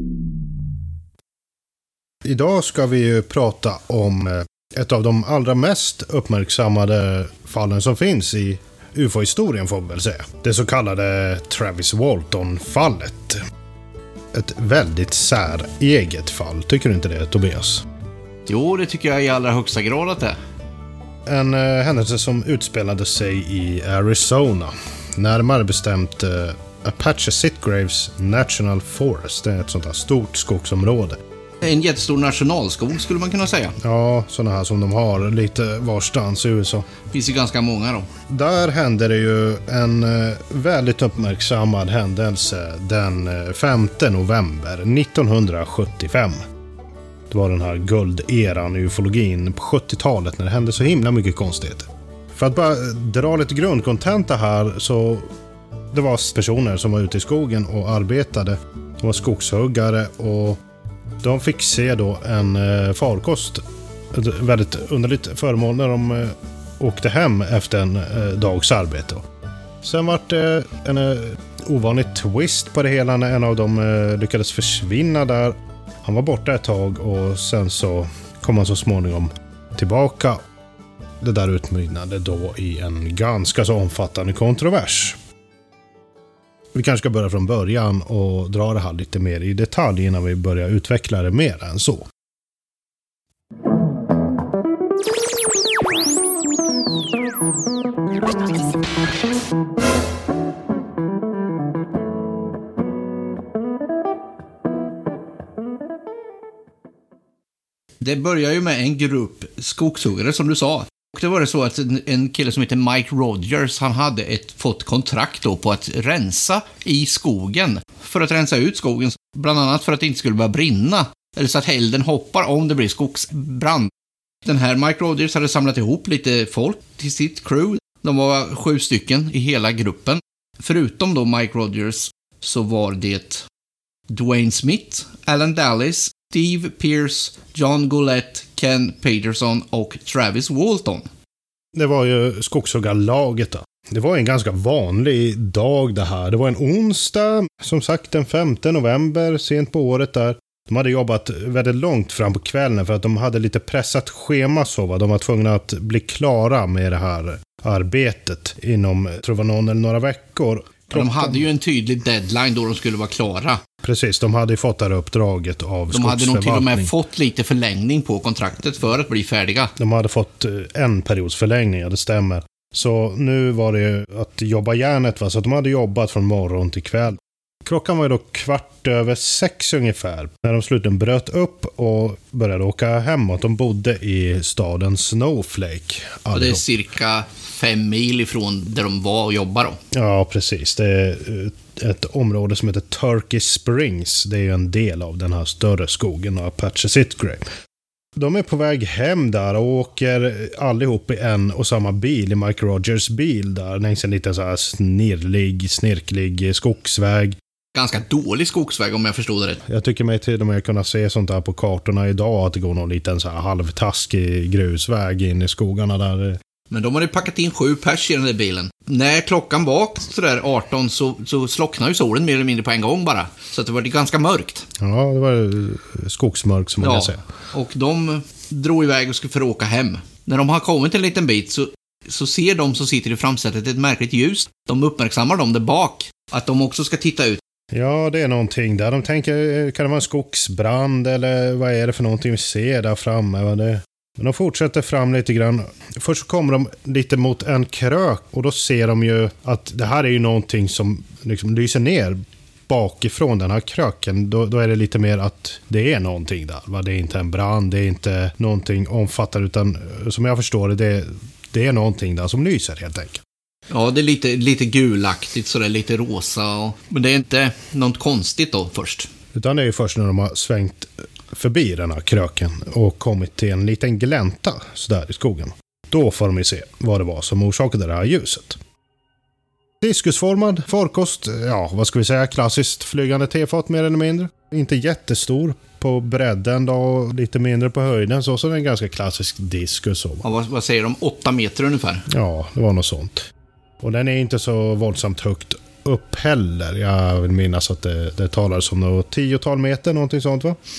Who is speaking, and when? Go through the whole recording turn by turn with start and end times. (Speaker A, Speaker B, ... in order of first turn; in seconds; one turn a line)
Speaker A: 2.2-13.4
Speaker A: 14.3-17.9
Speaker B: 18.5-20.4
Speaker A: 21.3-31.2
Speaker B: 31.6-33.8
Speaker A: 33.8-36.9
Speaker B: 37.1-38.1
Speaker A: 38.3-46.4
Speaker A: 47.3-55.3
Speaker A: 55.9-60.6
Speaker A: 61.2-69.2
Speaker A: 69.8-80.4
Speaker A: 81.2-85.2
Speaker A: 86.7-92.1
Speaker B: 108.0-123.9
Speaker B: 124.5-133.5
Speaker B: 134.1-141.1
Speaker A: 141.7-161.4
Speaker B: 160.9-163.6
Speaker A: 163.8-166.9
Speaker B: 165.9-169.7
Speaker A: 169.8-186.6
Speaker B: 186.3-189.8
Speaker A: 189.9-197.4
Speaker A: 198.2-207.4
Speaker B: 207.7-209.6
Speaker A: 209.7-216.4
Speaker B: 216.7-224.7
Speaker A: 224.8-227.2
Speaker B: 226.8-237.4
Speaker A: 237.7-252.2
Speaker A: 252.7-263.2
Speaker B: 263.7-269.1
Speaker A: 269.3-278.6
Speaker A: 279.8-290.3
Speaker B: 290.2-292.1
Speaker A: 292.1-293.3
Speaker A: 293.8-300.6